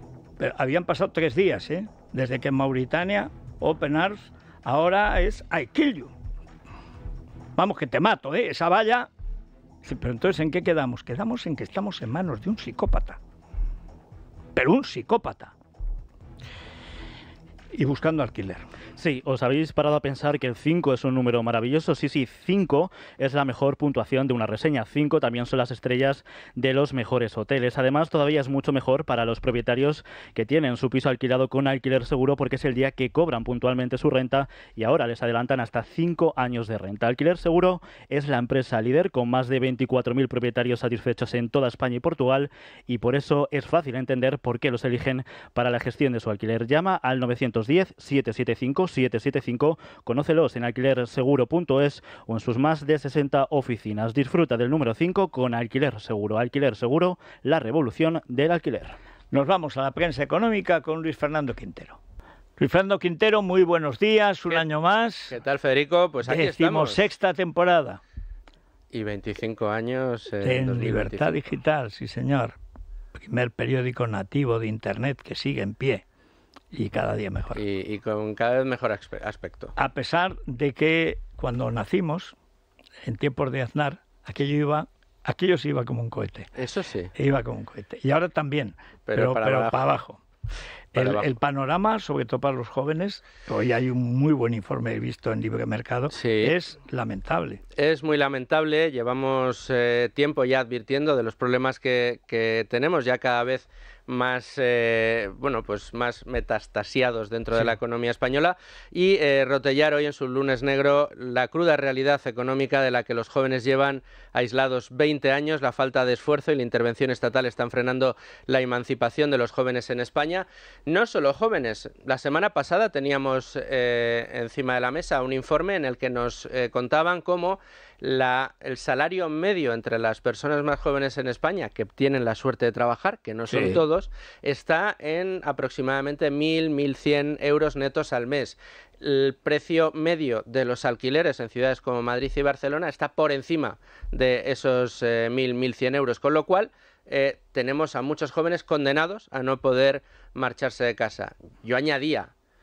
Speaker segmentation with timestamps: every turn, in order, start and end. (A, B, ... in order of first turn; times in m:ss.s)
0:00.4-0:06.1 A
0:07.6-0:09.1 A
0:09.8-0:13.2 A
0:14.5-0:15.5 A
0:17.7-0:18.6 A
0:19.0-0:59.0 B
0:59.3-1:02.0 A
1:02.6-1:05.4 A
1:05.3-1:07.0 C
1:06.2-1:08.0 A
1:08.9-1:11.4 C
1:10.4-1:12.6 A
1:13.1-1:16.0 A
1:16.7-1:17.6 A
1:17.5-1:19.7 C
1:19.8-1:22.3 A
1:23.0-1:26.5 A
1:26.6-1:27.1 C
1:27.1-1:30.2 A
1:29.0-1:29.8 C
1:30.9-1:37.6 A
1:30.9-1:31.3 C
1:36.1-1:36.6 C
1:37.8-2:32.3 C
2:13.5-2:13.8 A